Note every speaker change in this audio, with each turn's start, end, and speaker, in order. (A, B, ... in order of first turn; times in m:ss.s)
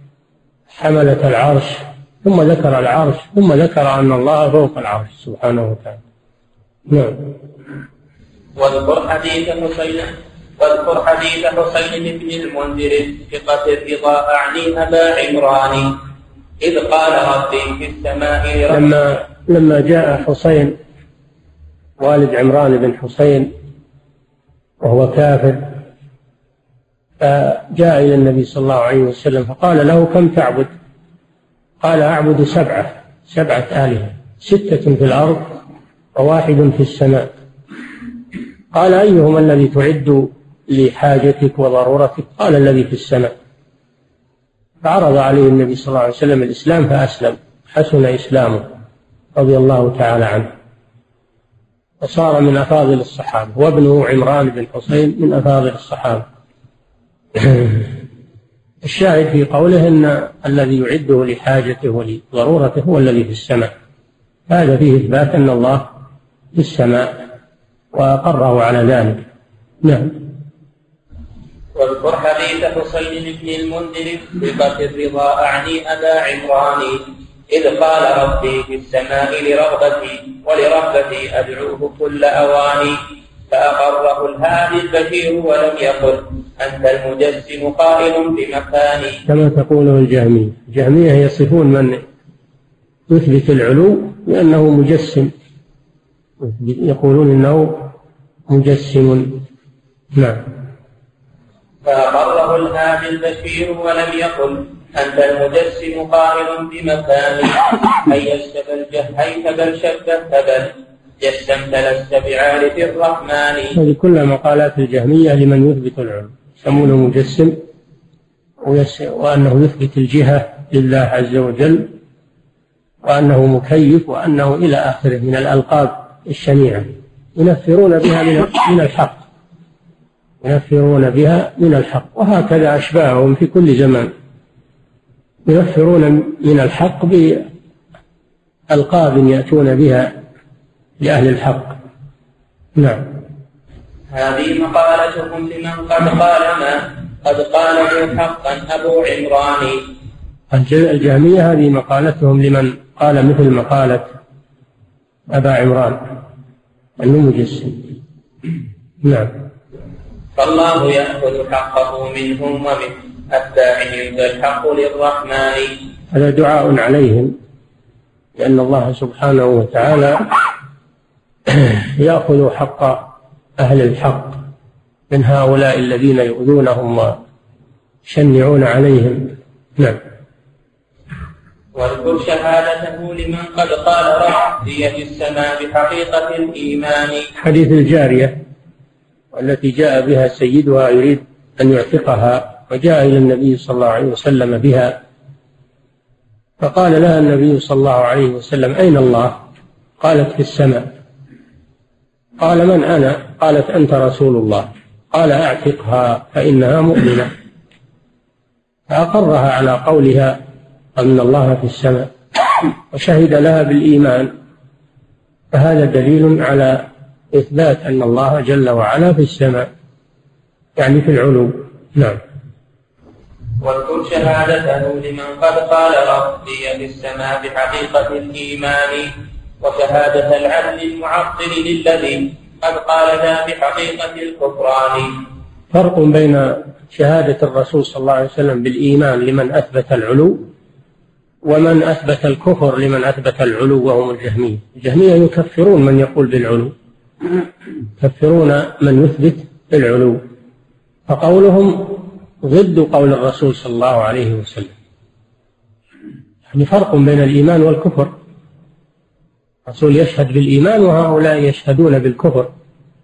0:00.7-0:06.0 A
0:06.9-0:07.3 A
0:08.6-0:15.9 B
0:16.6-0:18.8 B
0:18.7-0:20.8 A
0:22.0-0:23.5 A
0:24.8-0:25.8 A
0:27.2-0:30.7 A
0:31.8-0:35.5 A
0:36.2-0:37.3 A
0:38.7-0:43.3 A
0:44.8-0:48.7 A
0:49.4-0:50.5 A
0:52.0-0:56.2 A
0:57.4-0:57.9 A
0:58.8-1:03.7 A
1:04.5-1:05.9 A
1:06.5-1:07.1 A
1:07.9-1:09.2 A
1:09.8-1:10.2 A
1:11.7-1:17.0 B
1:17.5-1:23.0 B
1:23.5-1:29.2 B
1:29.2-1:32.0 A
1:33.1-1:35.3 A
1:36.4-1:37.9 A
1:38.5-1:39.4 A
1:40.2-1:40.4 A
1:41.8-1:53.8 B
1:53.7-1:57.6 A
1:58.6-2:01.9 A
2:03.0-2:09.2 A
2:10.4-2:14.1 A
2:15.5-2:17.4 A
2:18.7-2:20.1 A
2:21.0-2:21.8 A
2:22.8-2:23.1 A
2:24.1-2:29.8 B
2:30.5-2:34.1 A
2:35.3-2:36.1 A
2:37.0-2:37.9 A
2:39.0-2:39.4 A
2:40.4-2:45.7 B
2:46.1-2:47.3 A
2:48.4-2:50.3 A
2:51.5-2:54.4 A
2:55.1-2:57.2 A
2:58.0-3:00.0 A
3:01.7-3:07.3 B
3:07.4-3:08.4 A
3:09.3-3:15.0 A
3:16.6-3:19.4 A
3:20.0-3:20.9 A
3:22.4-3:27.3 A
3:28.9-3:30.4 A
3:31.0-3:32.1 A
3:32.9-3:34.3 A
3:35.5-3:39.7 A
3:40.8-3:42.2 A
3:43.6-3:55.1 B
3:55.7-4:00.5 A
4:01.4-4:06.7 A
4:08.0-4:10.2 A
4:11.1-4:14.7 A
4:16.5-4:18.1 A
4:19.7-4:22.5 A